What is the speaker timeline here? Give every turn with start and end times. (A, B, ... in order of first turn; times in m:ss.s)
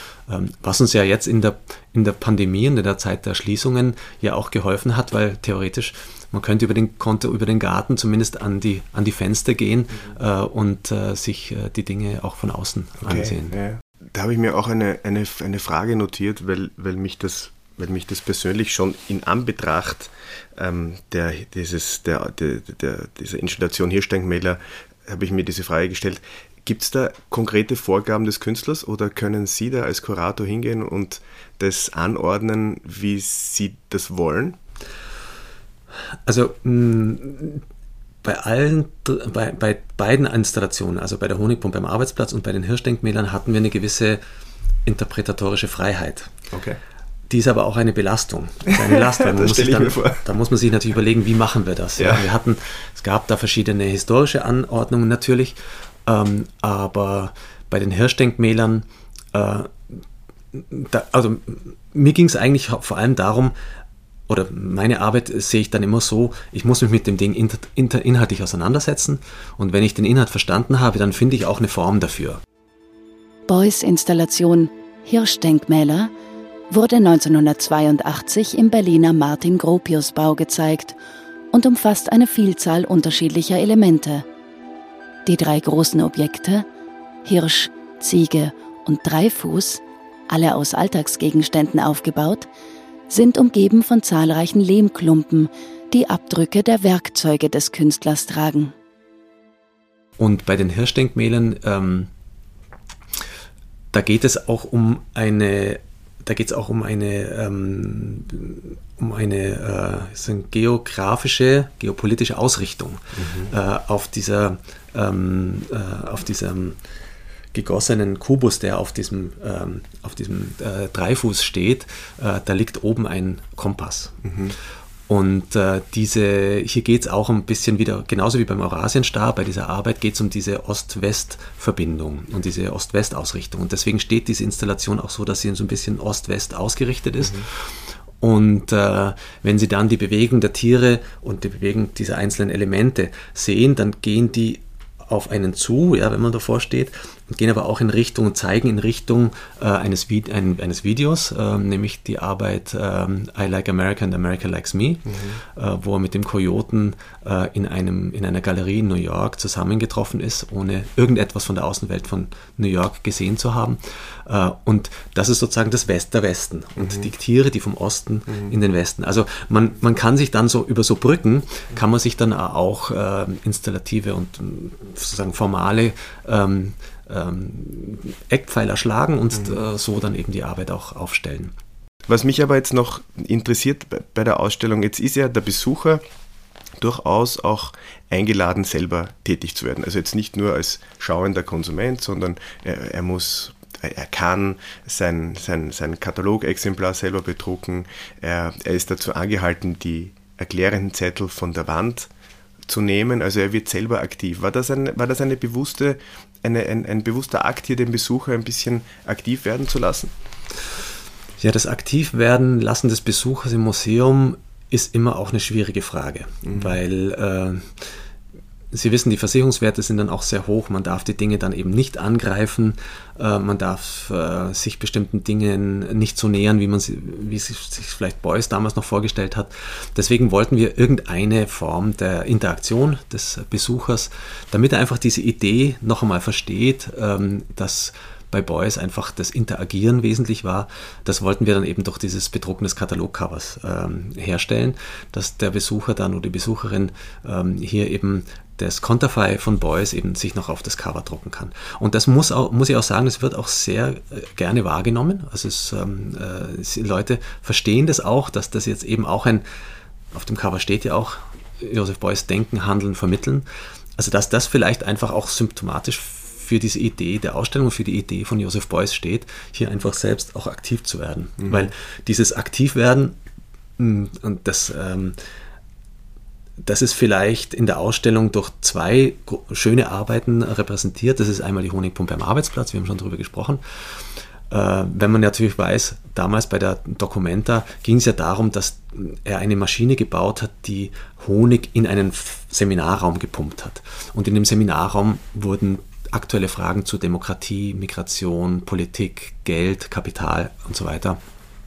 0:00.3-0:13.6 A
0:13.0-0:34.6 B
0:36.3-0:37.6 A
0:38.2-0:44.2 A
0:44.8-0:46.3 A
0:46.5-0:46.8 B
0:47.3-1:03.5 A
0:48.7-0:50.2 B
0:52.0-0:52.2 B
1:04.3-1:12.4 A
1:13.5-1:16.1 C
1:16.7-1:21.0 C
1:21.5-1:24.2 C
1:25.2-1:26.7 C
1:27.2-1:32.5 C
1:33.1-1:38.7 C
1:40.2-1:42.1 A
1:43.9-1:56.8 A
1:53.2-1:53.5 B
1:57.5-2:04.2 A
2:04.2-2:04.6 B
2:05.1-3:01.5 A
2:35.1-2:35.4 B
2:46.8-2:47.1 B
3:02.1-3:06.0 B
3:06.8-3:22.1 B
3:22.7-3:30.1 B
3:31.4-3:37.9 A
3:36.5-3:36.8 B
3:38.7-4:19.4 A
4:20.1-4:23.5 A
4:24.0-4:33.2 A
4:31.4-4:31.7 B
4:33.8-4:35.2 A
4:36.6-5:01.2 A